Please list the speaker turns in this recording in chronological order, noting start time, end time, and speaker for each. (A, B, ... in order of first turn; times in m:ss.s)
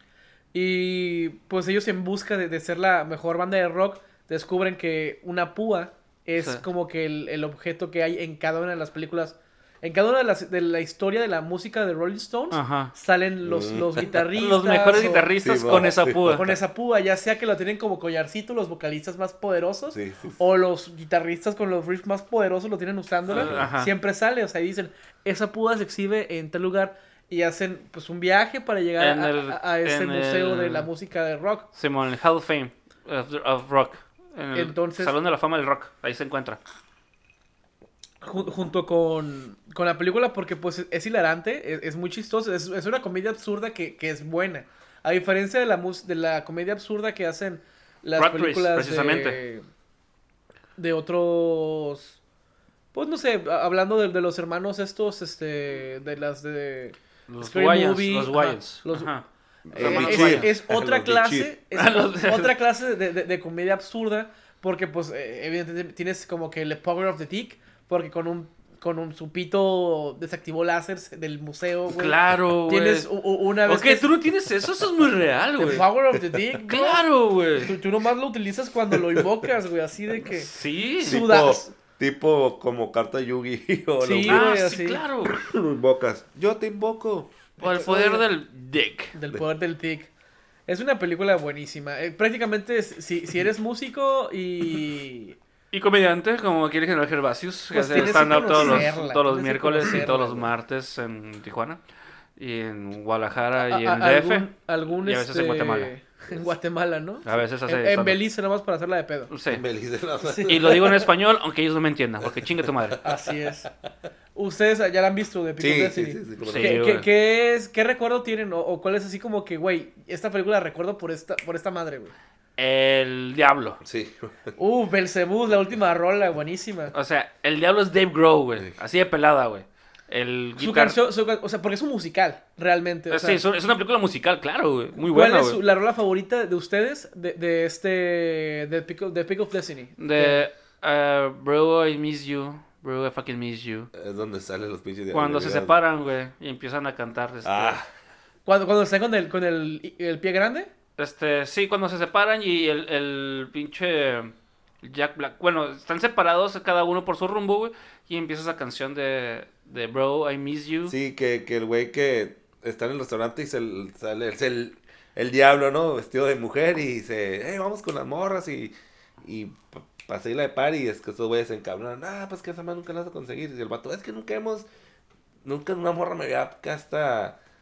0:00.5-0:31.7 A
0:06.4-0:06.6 B
0:12.5-0:12.9 B
0:13.4-0:14.1 C
0:14.4-0:16.5 B
0:15.4-0:16.5 C
0:19.9-0:20.4 C
0:23.3-0:23.7 C
0:23.3-0:23.9 B
0:29.0-0:30.9 B
0:31.7-0:36.6 B
0:34.5-0:35.2 A
0:38.2-0:49.6 A
0:48.2-0:49.4 B
0:50.8-0:52.2 A
0:52.9-0:59.1 A
0:57.3-1:00.5 B
0:59.7-1:01.5 C
0:59.7-1:14.1 A
1:01.7-1:02.6 B
1:11.9-1:13.1 B
1:13.6-1:15.8 B
1:15.6-1:17.1 A
1:16.6-1:17.7 B
1:17.6-1:21.7 A
1:20.3-1:21.2 B
1:21.0-1:24.6 C
1:24.0-1:25.0 A
1:24.2-1:25.4 B
1:25.2-1:27.6 C
1:27.6-1:29.1 B
1:27.6-1:28.2 A
1:29.1-1:30.1 A
1:30.7-1:35.4 A
1:35.7-1:41.8 B
1:37.7-1:40.5 A
1:38.5-1:38.8 C
1:39.9-1:40.4 C
1:42.4-1:45.9 B
1:43.6-1:49.3 A
1:47.2-1:48.2 B
1:49.3-1:49.6 B
1:49.5-1:51.0 C
1:50.2-1:50.9 A
1:50.4-1:53.0 B
1:52.2-1:53.3 C
1:53.0-1:53.7 A
1:54.3-2:02.1 A
1:55.6-1:56.8 C
1:56.4-1:57.0 B
2:02.6-2:03.8 B
2:03.8-2:04.5 C
2:04.6-2:06.9 A
2:06.9-2:11.0 B
2:10.6-2:13.4 A
2:13.1-2:15.6 B
2:15.0-2:20.4 A
2:20.0-2:23.9 B
2:23.9-2:25.8 C
2:25.1-2:27.8 B
2:27.4-2:27.9 C
2:28.4-2:30.7 A
2:31.0-2:40.9 B
2:40.9-2:54.6 C
2:55.4-2:57.4 C